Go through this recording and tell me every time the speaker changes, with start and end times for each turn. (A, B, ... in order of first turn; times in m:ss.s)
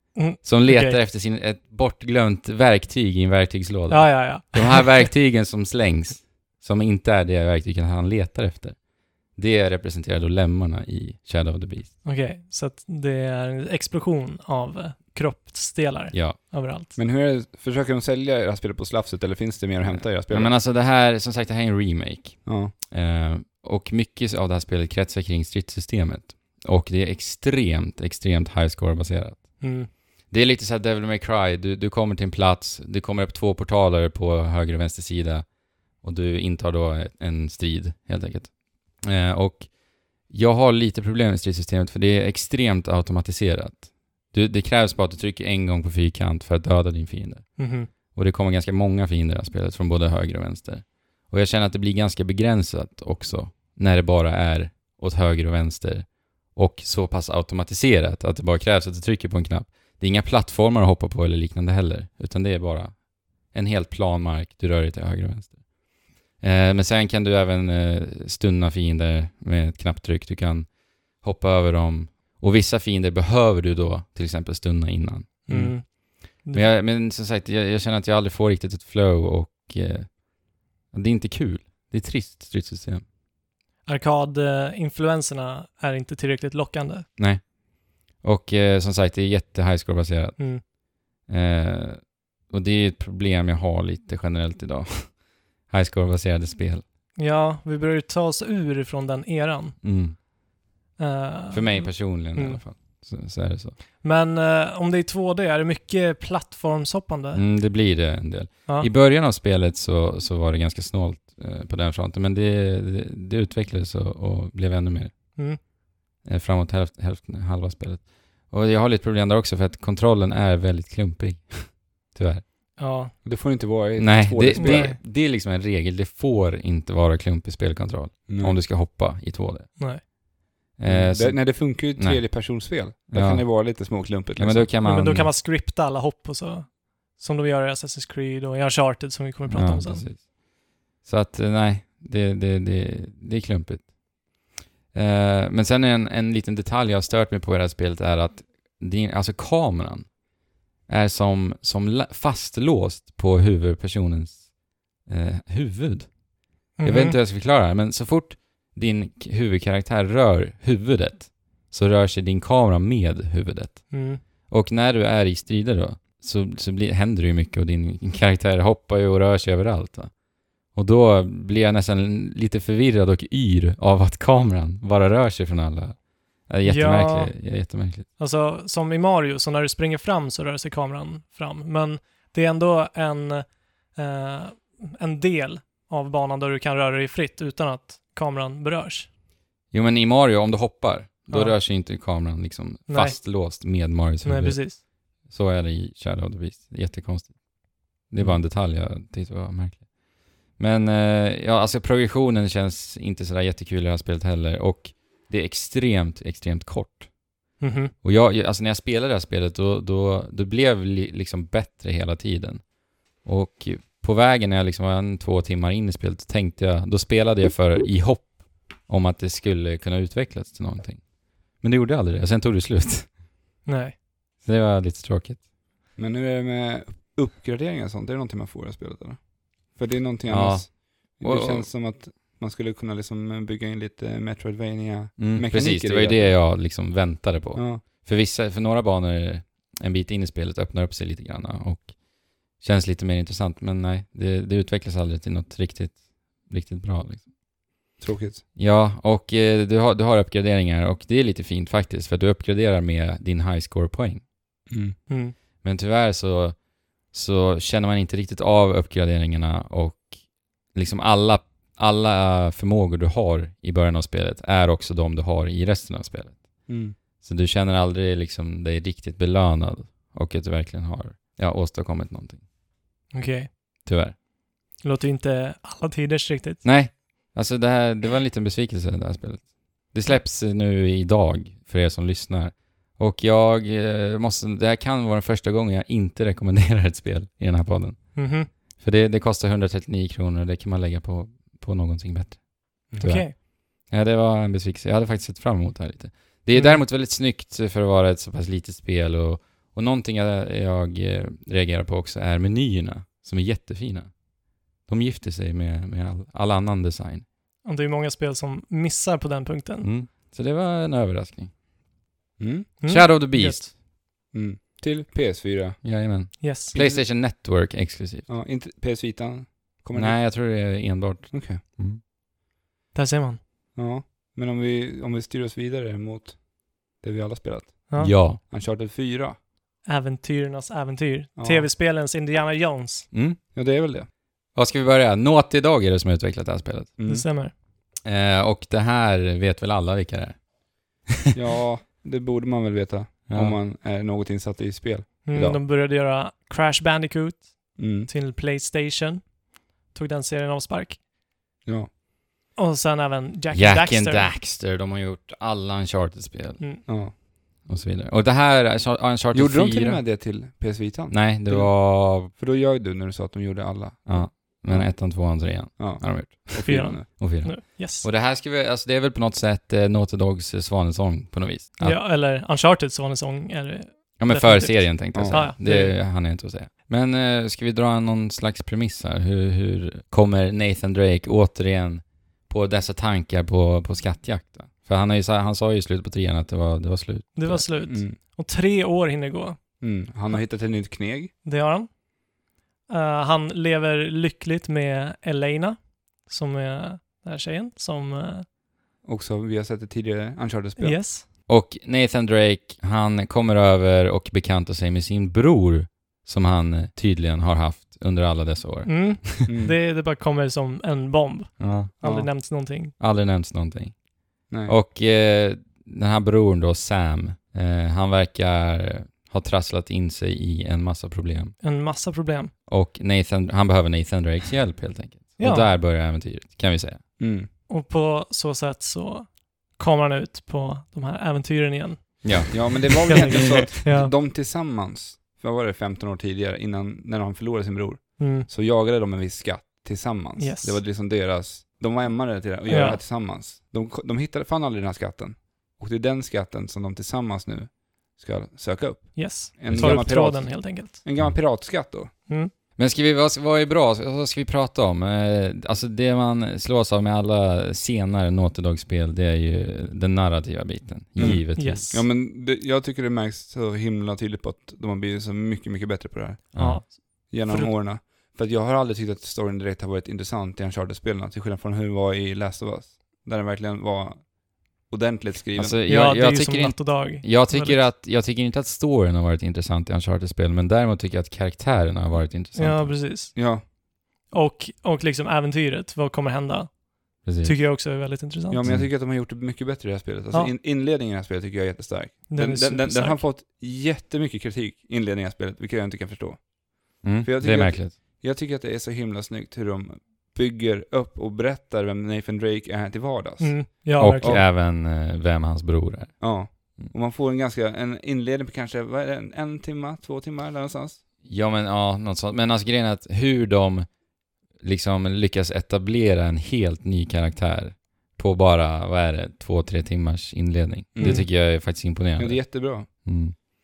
0:00.2-0:01.0 A
0:00.4-0:08.8 B
0:03.9-0:05.1 A
0:09.4-0:11.9 B
0:12.0-0:17.0 A
0:16.1-0:16.4 B
0:17.0-0:20.5 C
0:19.8-0:29.6 B
0:22.4-0:22.7 C
0:29.6-0:29.9 A
0:30.3-0:35.5 B
0:36.0-0:39.7 B
0:40.3-0:47.6 B
0:47.6-0:47.9 A
0:48.1-1:03.0 B
1:03.5-1:05.6 B
1:06.4-1:10.7 B
1:11.2-1:15.8 B
1:15.5-1:16.7 A
1:16.5-1:20.2 B
1:20.9-1:23.0 B
1:23.9-1:27.1 A
1:27.2-1:27.5 B
1:28.2-1:30.6 B
1:30.4-1:30.6 A
1:31.2-1:35.2 B
1:35.7-1:36.8 B
1:37.2-1:39.8 A
1:39.8-1:40.2 B
1:41.0-1:42.6 A
1:41.5-1:43.8 B
1:44.0-1:47.4 A
1:47.4-1:55.1 B
1:56.2-2:02.4 B
2:02.8-2:03.1 A
2:03.2-2:04.9 C
2:04.0-2:09.8 B
2:04.5-2:05.0 A
2:08.3-2:08.6 C
2:10.8-2:12.4 B
2:10.9-2:14.7 C
2:13.1-2:13.5 B
2:14.4-2:15.3 B
2:14.8-2:20.0 A
2:19.5-2:20.3 B
2:21.0-2:23.9 B
2:24.9-2:30.1 B
2:30.9-2:34.5 B
2:35.1-2:36.1 B
2:36.8-2:37.2 A
2:36.8-2:50.1 B
2:43.9-2:44.2 A
2:50.8-2:58.1 B
2:56.6-2:57.3 A
2:58.2-3:09.1 A
3:09.7-3:17.4 B
3:11.3-3:11.6 A
3:12.9-3:13.2 A
3:14.2-3:14.8 A
3:18.0-3:19.9 B
3:20.6-3:27.1 B
3:27.6-3:27.9 A
3:28.0-3:32.6 B
3:33.2-3:43.1 B
3:43.6-3:44.0 A
3:44.4-3:45.4 B
3:46.0-3:56.4 C
3:50.3-3:51.7 B
3:55.2-4:01.9 B
3:57.6-3:57.8 C
4:02.6-4:07.2 B
4:08.0-4:08.4 C
4:08.6-4:14.2 B
4:14.7-4:15.0 C
4:15.1-4:15.4 A
4:15.6-4:16.6 B
4:17.1-4:20.1 B
4:20.7-4:26.5 B
4:26.7-4:27.0 C
4:27.2-4:32.4 B
4:33.1-4:33.5 A
4:33.9-4:34.1 B
4:34.8-4:36.6 A
4:36.6-4:48.2 B
4:48.2-4:48.5 A
4:48.8-5:04.1 B
4:52.9-4:53.2 C
4:53.0-4:53.4 A
4:56.5-4:56.8 A
5:04.9-5:07.2 B
5:07.6-5:09.9 A
5:09.8-5:11.5 B
5:12.4-5:12.8 C
5:12.8-5:13.7 A
5:12.9-5:13.7 B
5:14.3-5:15.8 C
5:15.8-5:18.3 B
5:16.4-5:16.8 A
5:16.7-5:17.1 C
5:18.3-5:20.2 C
5:20.0-5:22.0 B
5:21.3-5:21.6 C
5:22.9-5:23.4 A
5:23.8-5:29.4 C
5:28.0-5:28.4 B
5:29.8-5:33.1 A
5:31.4-5:31.7 C
5:33.1-5:33.4 B
5:33.5-5:34.1 C
5:34.6-5:36.9 B
5:37.0-5:37.2 C
5:37.1-5:37.5 A
5:38.0-5:40.5 B
5:41.3-5:45.6 C
5:43.3-5:43.6 B
5:45.2-5:49.4 A
5:47.8-5:48.1 C
5:49.9-5:51.0 A
5:52.6-5:54.3 A
5:53.5-5:56.9 B
5:56.9-5:57.1 C
5:57.6-6:00.0 B
5:59.3-6:07.1 C
6:01.1-6:02.3 B
6:04.1-6:12.0 B
6:06.6-6:08.1 A
6:11.8-6:16.0 A
6:14.2-6:27.7 B
6:15.1-6:15.4 C
6:27.4-6:29.8 A
6:27.9-6:28.2 C
6:29.8-6:31.3 C
6:31.4-6:31.9 A
6:32.9-6:38.5 A
6:39.0-6:41.1 C
6:40.8-6:41.2 A
6:41.5-6:49.3 B
6:48.9-6:52.9 A
6:49.5-6:49.8 C
6:51.6-6:51.9 B
6:52.0-6:52.3 C
6:53.0-6:54.0 B
6:54.5-6:54.8 C
6:54.6-7:01.6 B
7:01.6-7:02.5 A
7:02.7-7:07.0 B
7:05.4-7:05.7 A
7:07.2-7:07.5 C
7:07.7-7:14.1 A
7:12.2-7:13.7 B
7:12.5-7:32.1 C
7:18.2-7:18.5 A
7:20.4-7:20.8 A
7:22.7-7:23.0 A
7:29.2-7:31.0 A
7:29.7-7:30.1 B
7:32.8-7:41.9 B
7:41.2-7:42.0 A
7:41.2-7:46.6 C
7:46.6-7:46.8 B
7:46.6-7:47.7 A
7:47.3-7:55.8 C
7:55.6-8:03.0 B
7:55.9-7:57.8 A
8:02.6-8:03.4 A
8:03.3-8:03.6 C
8:04.2-8:08.6 A
8:07.2-8:07.6 B
8:08.5-8:24.4 C
8:12.3-8:13.2 A
8:17.0-8:18.0 B
8:23.4-8:24.4 A
8:24.0-8:26.2 B
8:26.2-8:31.0 C
8:31.2-8:33.9 B
8:34.6-8:43.4 B
8:40.9-8:41.3 C
8:41.0-8:41.2 A
8:42.2-8:43.0 C